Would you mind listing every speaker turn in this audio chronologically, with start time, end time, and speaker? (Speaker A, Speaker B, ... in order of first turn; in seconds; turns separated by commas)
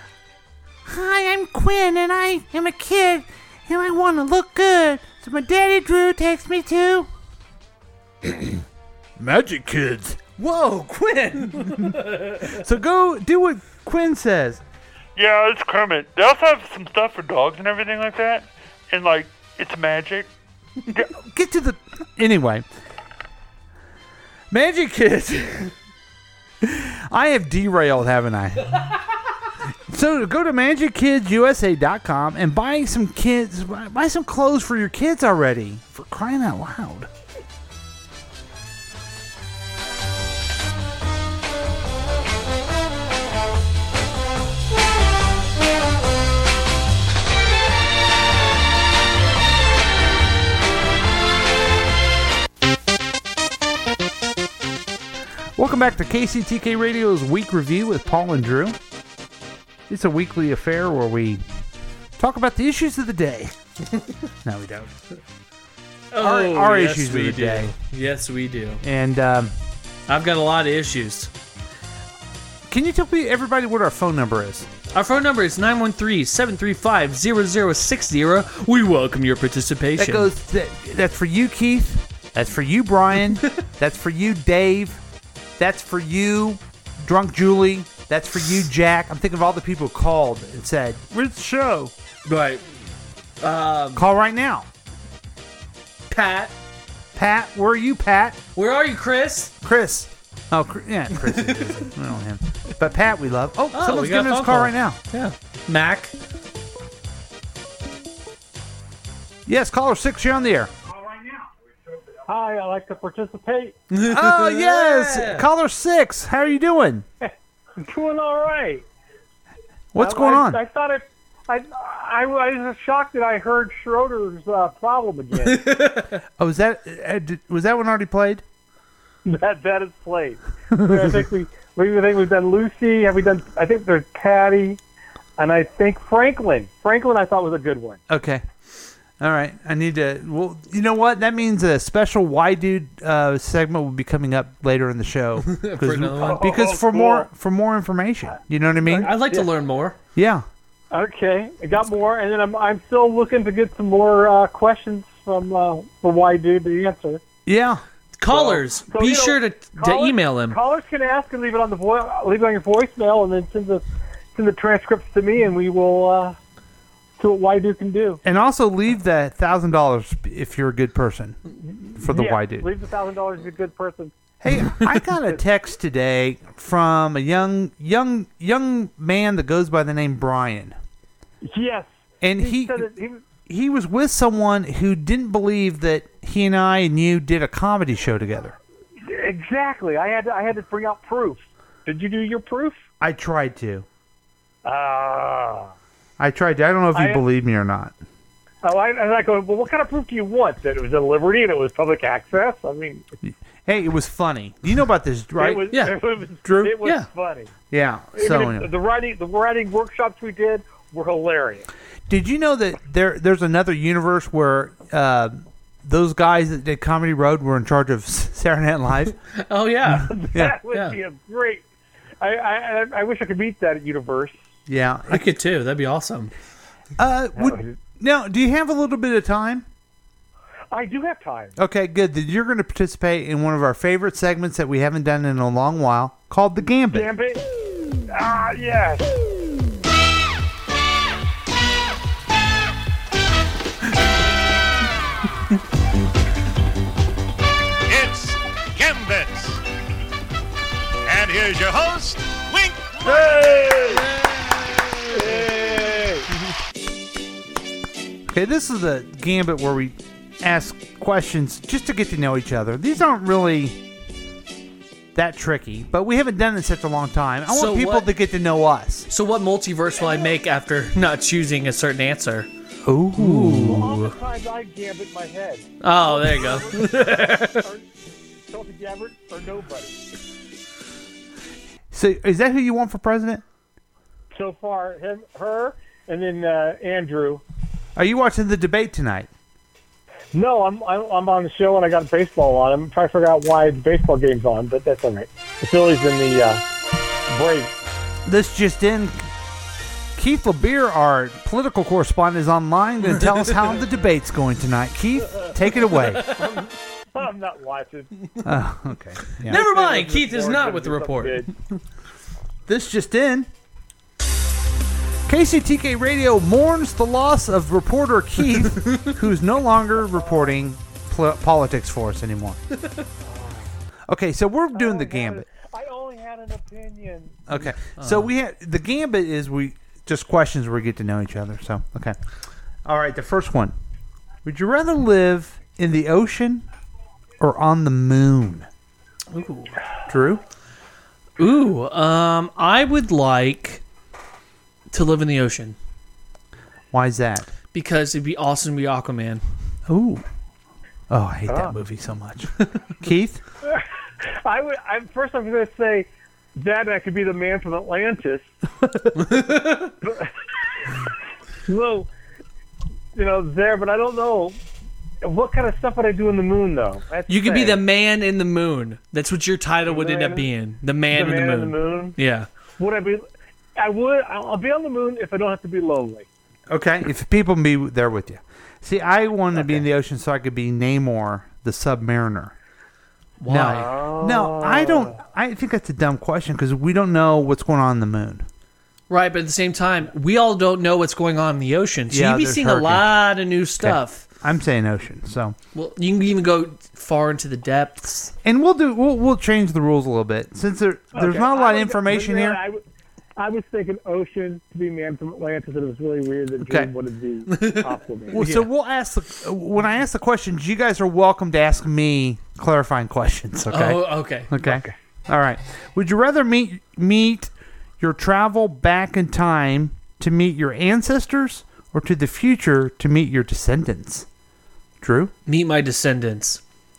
Speaker A: 0.8-7.1, Speaker A: 8.2-8.5, Speaker A: 9.2-10.4, Speaker B: 10.4-12.6, Speaker A: 11.4-14.6, Speaker C: 15.2-20.3, Speaker A: 21.1-22.6, Speaker A: 24.5-25.7, Speaker A: 26.6-28.9, Speaker A: 29.9-37.1, Speaker A: 55.5-58.8, Speaker A: 59.9-61.4, Speaker A: 62.2-63.5, Speaker A: 64.4-64.9, Speaker B: 66.1-68.8, Speaker A: 66.2-67.7, Speaker A: 68.8-69.5, Speaker B: 70.1-71.3, Speaker A: 72.7-74.7, Speaker B: 74.9-80.3, Speaker A: 80.0-85.0, Speaker A: 85.6-91.9, Speaker B: 92.2-92.6, Speaker B: 93.4-94.0, Speaker A: 93.9-94.7, Speaker B: 96.1-96.5, Speaker A: 97.1-98.4, Speaker B: 98.5-99.5, Speaker A: 99.6-105.0, Speaker B: 101.2-101.9, Speaker B: 103.7-106.1, Speaker A: 109.5-110.7, Speaker D: 112.3-113.8, Speaker B: 113.9-115.5, Speaker A: 114.0-117.0, Speaker D: 117.2-118.8, Speaker A: 119.9-120.6, Speaker D: 120.0-125.7, Speaker B: 125.4-126.2, Speaker A: 126.4-128.4, Speaker D: 129.2-134.8, Speaker D: 135.4-138.0, Speaker A: 138.1-138.4, Speaker A: 139.2-149.2, Speaker B: 145.4-146.5, Speaker D: 146.2-147.3, Speaker D: 148.9-149.5, Speaker B: 148.9-150.0, Speaker A: 150.1-150.4, Speaker D: 150.9-157.2, Speaker A: 157.4-157.8, Speaker B: 158.2-160.6, Speaker D: 158.3-166.3, Speaker D: 167.2-168.2, Speaker A: 168.2-171.4, Speaker A: 171.9-172.7, Speaker D: 172.0-174.1, Speaker A: 174.4-180.8, Speaker D: 181.4-183.2, Speaker A: 182.2-182.9, Speaker A: 183.4-188.6, Speaker D: 189.0-192.8, Speaker A: 193.0-193.8, Speaker D: 194.6-195.7, Speaker A: 196.2-197.9, Speaker D: 196.9-197.2, Speaker D: 198.6-203.1, Speaker A: 203.2-205.8, Speaker D: 205.4-207.5, Speaker B: 205.7-206.0, Speaker A: 206.4-206.8, Speaker B: 206.8-207.1, Speaker A: 207.7-208.7, Speaker D: 208.1-211.7, Speaker A: 212.1-219.2, Speaker B: 219.4-221.0, Speaker D: 220.1-221.6, Speaker A: 220.3-220.6, Speaker D: 222.2-224.4, Speaker A: 224.7-225.3, Speaker B: 225.1-226.3, Speaker A: 227.0-229.7, Speaker D: 227.3-227.8, Speaker D: 230.7-231.6, Speaker A: 231.6-237.1, Speaker D: 236.9-237.4, Speaker D: 238.1-239.1, Speaker E: 247.9-249.5, Speaker E: 251.1-252.7, Speaker D: 253.0-254.0, Speaker B: 253.8-255.5, Speaker D: 255.1-256.3, Speaker A: 258.3-263.8, Speaker A: 265.1-269.1, Speaker B: 267.5-268.1, Speaker B: 269.1-272.5, Speaker D: 270.0-270.3, Speaker A: 272.8-274.0, Speaker B: 273.1-274.1, Speaker D: 273.7-277.8, Speaker B: 275.8-277.6, Speaker D: 278.5-279.9, Speaker A: 281.9-283.4, Speaker D: 284.3-287.4, Speaker A: 287.9-289.3, Speaker D: 290.3-296.6, Speaker D: 297.3-297.7, Speaker A: 298.2-299.3, Speaker A: 300.1-306.3, Speaker B: 305.9-306.6, Speaker D: 306.4-308.1, Speaker A: 308.4-309.6, Speaker D: 309.4-311.5, Speaker B: 309.4-311.8, Speaker A: 312.7-313.5, Speaker A: 315.3-322.6, Speaker B: 318.7-319.1, Speaker D: 320.1-320.5, Speaker D: 323.2-323.7, Speaker A: 324.1-325.4, Speaker D: 324.7-327.4, Speaker A: 327.5-332.1, Speaker B: 327.9-328.3, Speaker A: 332.8-333.7, Speaker A: 334.4-336.6, Speaker A: 337.4-338.7, Speaker B: 339.3-339.8, Speaker A: 340.1-340.4, Speaker B: 341.4-343.8, Speaker B: 344.9-345.8, Speaker A: 346.9-347.5, Speaker B: 347.7-349.4, Speaker A: 349.9-350.2, Speaker A: 351.1-353.4, Speaker D: 351.5-351.8, Speaker D: 354.4-358.5, Speaker B: 359.1-359.9, Speaker D: 360.0-360.3, Speaker D: 361.7-362.1, Speaker D: 363.1-364.6, Speaker D: 365.2-367.8, Speaker B: 367.3-372.5, Speaker D: 369.9-370.5, Speaker D: 371.1-372.2, Speaker D: 372.8-373.2, Speaker D: 373.8-376.3, Speaker A: 376.7-382.5, Speaker D: 379.5-379.8, Speaker B: 383.4-383.9, Speaker A: 383.5-388.4, Speaker D: 383.6-385.2, Speaker B: 389.1-394.2, Speaker A: 392.1-393.2, Speaker A: 393.8-395.6, Speaker B: 395.7-398.3, Speaker A: 398.4-402.6, Speaker D: 401.1-402.8, Speaker D: 403.4-408.5, Speaker A: 406.6-406.9, Speaker B: 407.5-408.7, Speaker A: 408.3-424.3, Speaker B: 413.7-414.5, Speaker D: 414.6-414.9, Speaker A: 425.0-425.3, Speaker B: 425.4-426.6